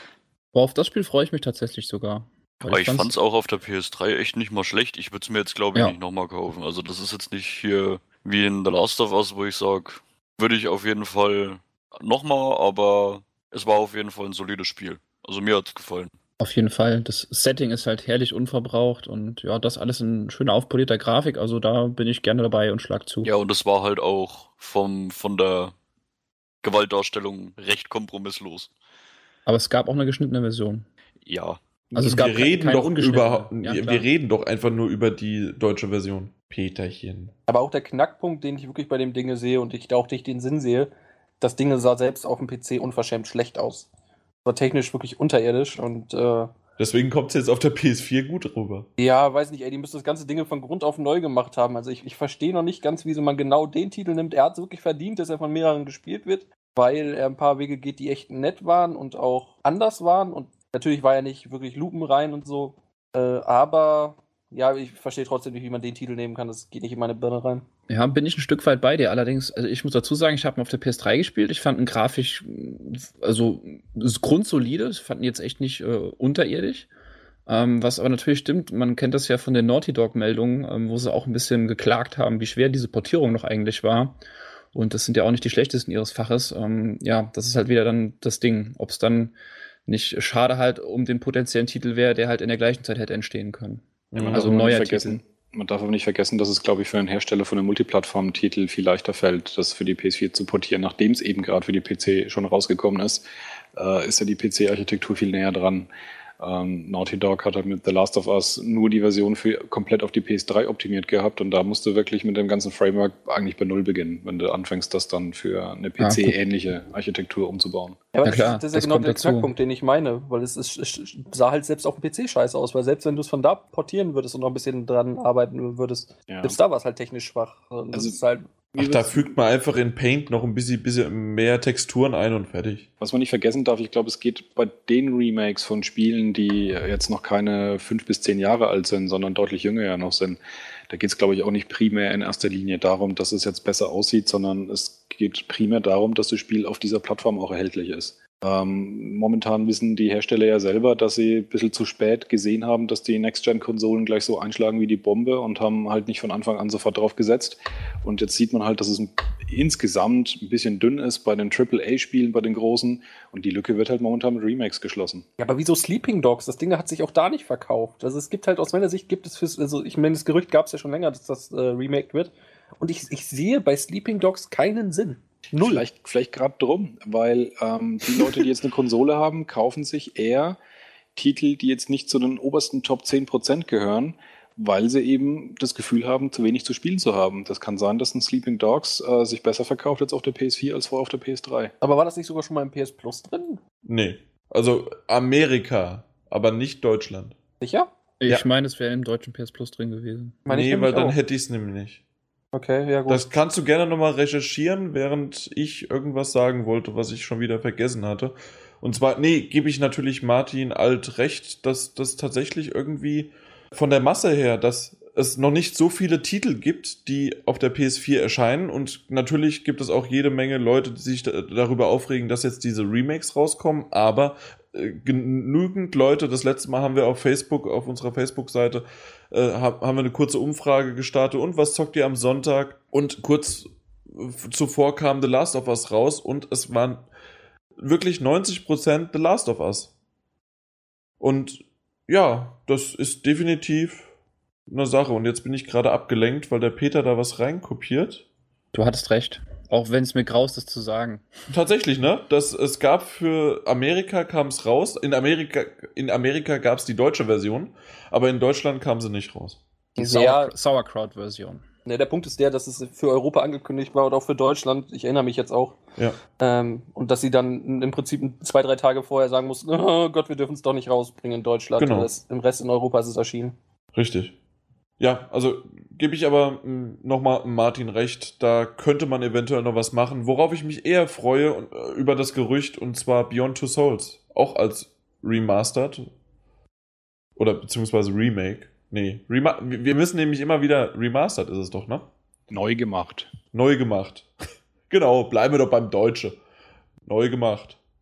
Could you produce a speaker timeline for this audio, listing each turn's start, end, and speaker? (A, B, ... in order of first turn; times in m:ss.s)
0:00.5-0:03.1 A
0:02.7-0:16.1 B
0:16.4-0:23.3 A
0:23.2-0:25.8 B
0:26.6-0:28.7 B
0:29.5-0:30.9 A
0:31.2-0:31.6 B
0:31.9-0:34.1 A
0:32.0-0:37.3 C
0:37.5-0:43.9 D
0:44.4-0:46.5 D
0:46.8-0:48.9 C
0:49.0-1:07.7 D
1:07.9-1:16.9 A
1:17.5-1:24.2 A
1:24.7-1:29.4 A
1:29.9-1:35.2 A
1:34.1-1:34.5 C
1:34.3-1:45.9 E
1:46.4-1:58.0 E
1:56.0-1:56.4 A
1:58.1-2:09.3 D
1:58.2-1:59.5 A
2:06.3-2:06.6 E
2:07.9-2:08.2 E
2:08.8-2:12.9 C
2:13.0-2:45.3 E
2:45.4-2:55.8 D
2:55.5-3:00.6 E
3:01.2-3:11.7 E
3:11.8-3:13.6 D
3:13.8-3:17.4 C
3:17.6-3:17.9 D
3:18.2-3:20.5 A
3:20.5-3:21.2 D
3:20.5-3:22.0 C
3:22.5-3:23.2 D
3:23.1-3:57.1 C
3:57.8-3:59.9 C
4:01.2-4:04.1 C
4:04.7-4:08.2 C
4:08.7-4:11.3 A
4:11.5-4:19.6 C
4:20.0-4:21.6 A
4:20.0-4:20.5 D
4:21.8-4:25.8 D
4:26.4-4:33.6 D
4:31.8-4:32.1 C
4:34.0-4:34.4 C
4:35.0-4:46.1 C
4:47.4-4:52.1 C
4:52.5-4:53.3 E
4:53.5-4:54.3 C
4:54.9-4:56.4 C
4:57.0-4:57.8 C